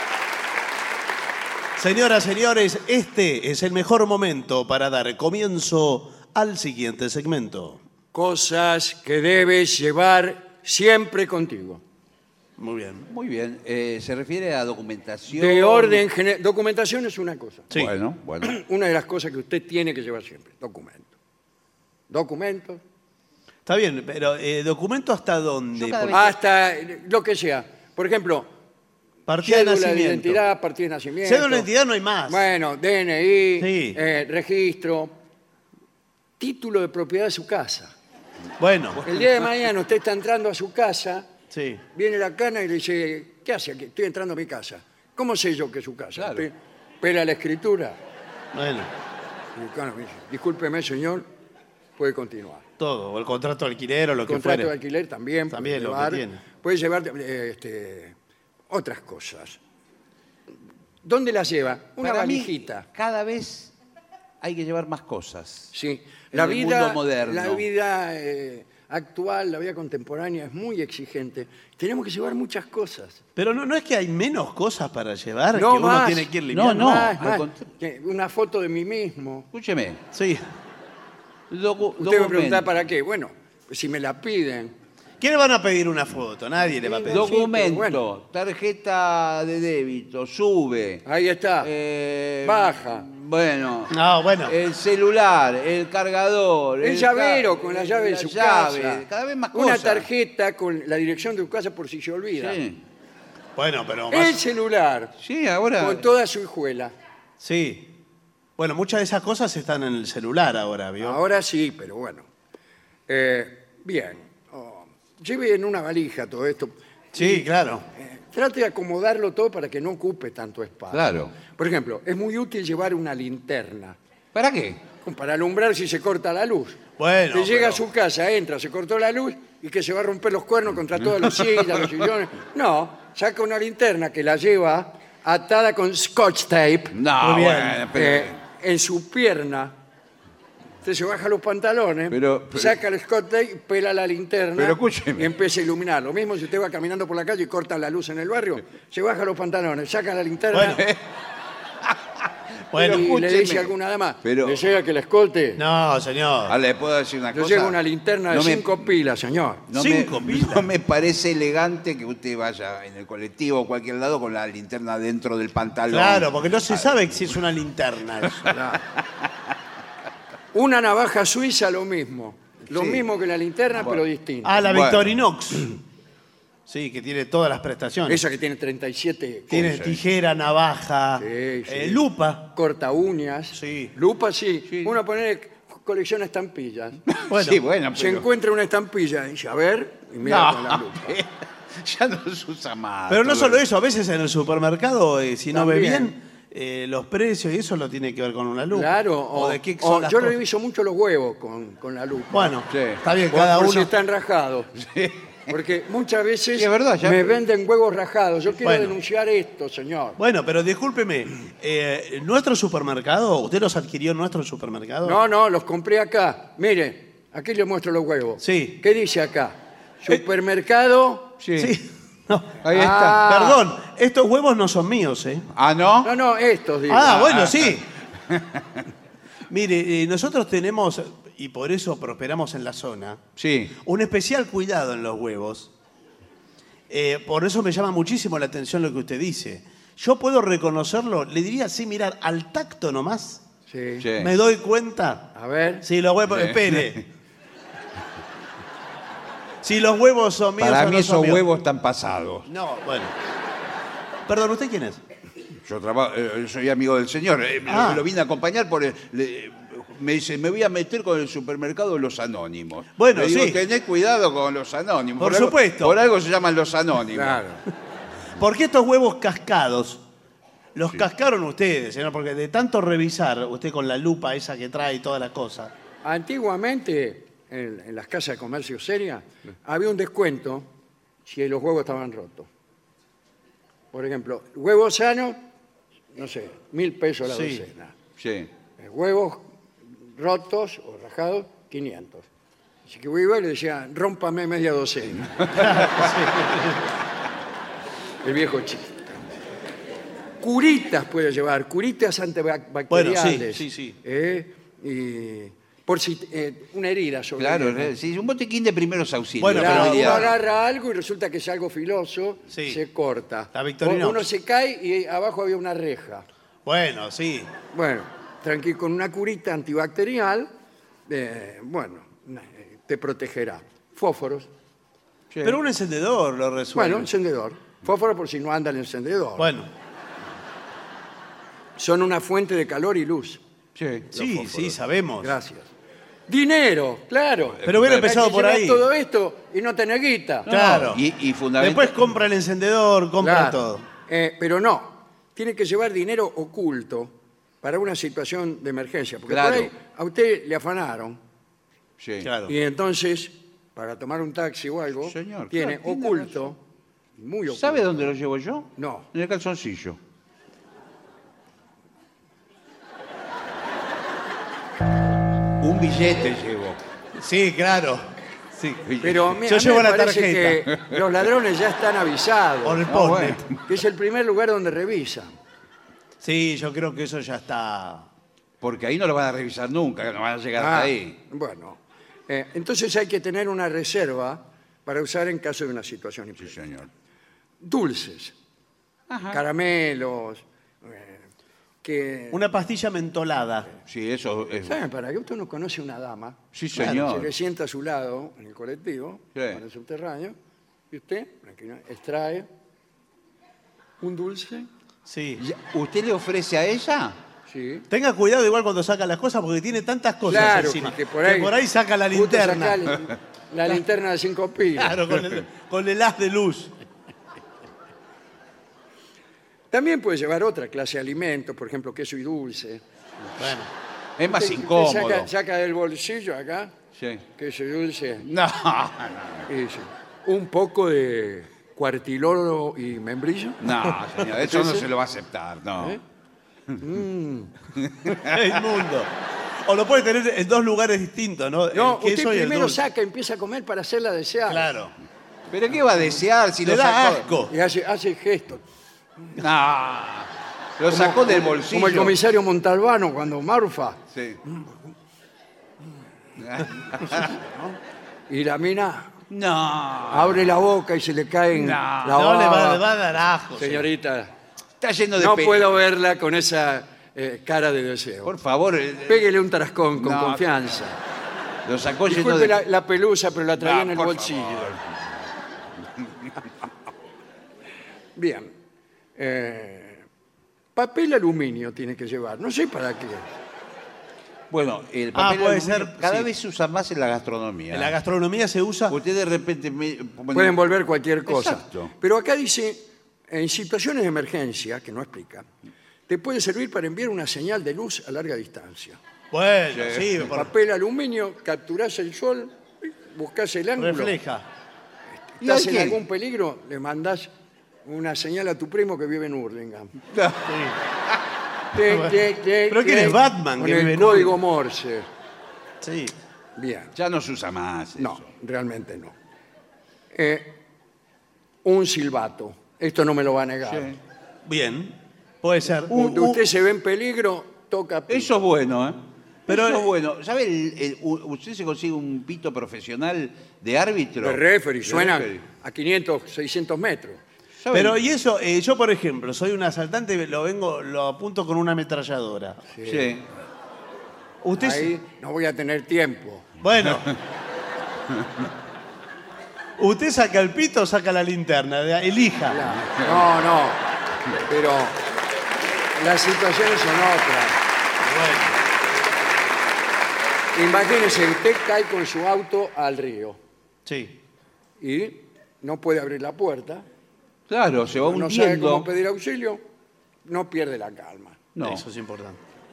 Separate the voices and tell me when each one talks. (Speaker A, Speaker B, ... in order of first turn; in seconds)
Speaker A: 1.8-7.8, 12.6-13.1, 23.7-26.2, 29.3-30.4, 31.2-32.5, 33.6-34.0, 38.6-39.0, 41.5-41.8, 48.5-48.9, 52.8-54.7, 55.5-56.4, 73.4-77.0, 80.1-80.5, 85.2-87.4, 93.9-94.6, 103.6-104.4, 107.4-107.9, 108.6-111.2, 117.1-117.8, 127.0-127.8, 137.2-137.9, 150.5-150.8, 152.7-153.1, 155.6-156.6, 159.7-160.7, 165.9-168.5, 174.4-175.8, 176.7-178.2, 179.5-182.5, 183.5-183.9, 187.3-187.6, 193.1-200.3, 202.3-203.9, 208.6-208.9, 210.2-215.2, 218.4-218.8, 221.6-225.5, 226.9-227.9, 229.5-233.2, 233.8-235.7, 236.9-243.4, 244.2-247.1, 249.6-251.4, 252.5-253.1, 254.3-255.0, 257.7-258.1, 263.0-263.6, 265.2-266.0, 268.4-270.0, 270.8-275.7, 287.2-287.6, 295.6-296.8, 302.9-304.0, 309.4-310.3, 312.5-312.8, 313.5-314.3, 316.7-317.5, 325.4-327.1, 329.4-329.7, 334.1-335.3, 337.6-338.9, 340.5-341.1, 341.6-343.9, 352.2-352.6, 367.1-368.9, 369.4-370.6, 372.6-373.4, 376.2-378.1, 392.3-393.7, 396.8-397.1, 405.1-405.4, 407.9-412.9, 414.8-416.7, 423.4-423.7, 438.2-439.1, 439.6-442.8, 444.5-444.9, 446.6-447.5, 462.1-463.9, 485.1-486.3, 487.7-489.0, 499.3-500.5, 503.8-504.4, 510.5-510.8, 511.8-514.4, 515.8-516.1, 524.5-526.5, 529.5-529.9, 537.7-542.6, 544.4-544.9, 546.6-547.1, 549.8-552.6, 558.0-558.6, 563.9-564.2, 571.6-572.4
Speaker B: 8.1-11.8, 15.3-17.7, 18.4-21.1, 22.1-22.8, 26.1-28.5, 29.4-31.7, 32.3-35.1, 36.4-37.9, 39.0-41.3, 41.9-48.0, 49.5-51.3, 52.0-52.6, 54.3-58.2, 58.7-59.6, 61.0-62.9, 65.7-73.2, 75.5-79.5, 82.0-84.7, 86.7-88.0, 91.0-91.7, 92.4-93.1, 96.8-102.6, 104.1-105.1, 105.8-106.9, 111.0-112.3, 113.1-124.0, 125.0-126.8, 127.3-137.0, 137.9-139.8, 140.8-150.8, 152.8-155.6, 157.3-159.6, 168.5-168.8, 170.5-174.6, 178.1-179.7, 181.2-187.0, 187.9-191.2, 195.5-196.1, 198.7-202.6, 203.3-204.7, 205.5-210.2, 215.0-221.3, 222.7-223.7, 226.0-227.4, 243.7-244.1, 245.3-245.9, 267.1-267.6, 276.0-280.7, 281.2-282.5, 283.9-285.4, 286.1-288.0, 288.8-289.5, 290.1-292.3, 292.9-295.8, 298.2-299.1, 300.4-308.0, 309.5-316.2, 317.7-320.5, 321.1-324.5, 326.8-329.5, 331.8-333.4, 334.1-334.7, 335.2-335.7, 336.3-340.5, 343.2-351.2, 352.5-356.6, 357.2-358.2, 358.8-359.1, 369.0-372.9, 373.7-375.3, 380.6-386.6, 387.6-388.3, 389.3-391.2, 391.8-392.5, 394.7-400.4, 400.9-402.5, 404.0-404.7, 407.5-407.9, 410.2-411.6, 412.1-415.0, 419.7-422.8, 424.3-426.7, 427.4-428.2, 429.5-433.6, 434.4-434.9, 436.8-437.5, 441.7-444.7, 447.4-448.6, 450.9-454.7, 457.0-457.8, 458.3-459.1, 460.1-462.8, 463.6-464.3, 465.2-468.3, 469.1-471.0, 472.1-474.8, 478.2-478.5, 479.2-480.1, 480.8-483.3, 490.3-495.5, 496.1-499.0, 500.2-504.2, 505.2-507.3, 507.9-509.9, 511.7-515.1, 516.6-516.9, 518.0-519.1, 520.1-520.5, 521.6-524.0, 525.9-528.3, 534.2-537.2, 542.7-543.1, 544.6-546.5, 552.5-553.8, 554.5-555.0, 556.0-557.6, 560.5-563.4, 564.8-566.9, 568.0-569.6, 570.2-571.4
Speaker C: 13.1-16.0, 17.7-18.6, 25.8-26.4, 46.2-46.5, 62.0-63.7, 64.4-65.7, 66.3-67.6, 76.5-77.7, 79.5-80.0, 81.5-82.7, 87.1-91.0, 91.6-93.9, 94.5-100.1, 102.3-102.8, 105.2-106.0, 120.9-121.3, 124.3-124.8, 136.9-138.4, 142.1-142.8, 144.6-145.3, 150.7-151.0, 152.7-154.6, 156.5-157.8, 158.3-158.9, 159.7-167.2, 168.3-168.5, 172.7-173.0, 173.7-174.0, 174.6-175.2, 179.5-180.0, 184.7-184.9, 187.1-188.2, 190.2-193.6, 202.7-203.0, 204.8-205.5, 206.6-207.4, 221.4-221.7, 222.6-223.2, 225.6-226.1, 227.2-228.8, 233.4-233.8, 244.0-244.3, 246.3-246.9, 250.6-252.5, 255.7-267.4, 288.2-288.5, 295.4-296.1, 307.4-310.3, 325.3-325.6, 333.8-334.5, 337.6-338.1, 340.4-341.9, 349.3-349.7, 352.0-352.3, 355.1-356.5, 357.5-360.0, 365.6-366.8, 368.9-369.4, 370.8-371.0, 372.9-373.6, 378.6-381.2, 386.4-386.9, 389.1-389.4, 393.9-394.8, 396.5-397.3, 399.4-399.6, 405.4-407.2, 424.2-425.3, 427.0-427.2, 428.2-429.5, 433.6-436.0, 437.8-438.6, 445.5-447.2, 449.4-452.2, 454.1-454.4, 456.4-457.3, 459.3-460.5, 461.5-462.2, 464.8-465.7, 468.2-469.3, 470.0-470.5, 471.6-472.6, 473.6-474.9, 484.5-488.0, 488.9-490.6, 491.3-491.9, 499.7-500.1, 505.4-506.0, 510.1-510.5, 517.0-518.2, 523.6-524.0, 528.1-535.4, 537.6-538.0, 542.9-543.2, 546.8-547.1, 552.8-553.3, 567.5-568.9, 571.5-571.9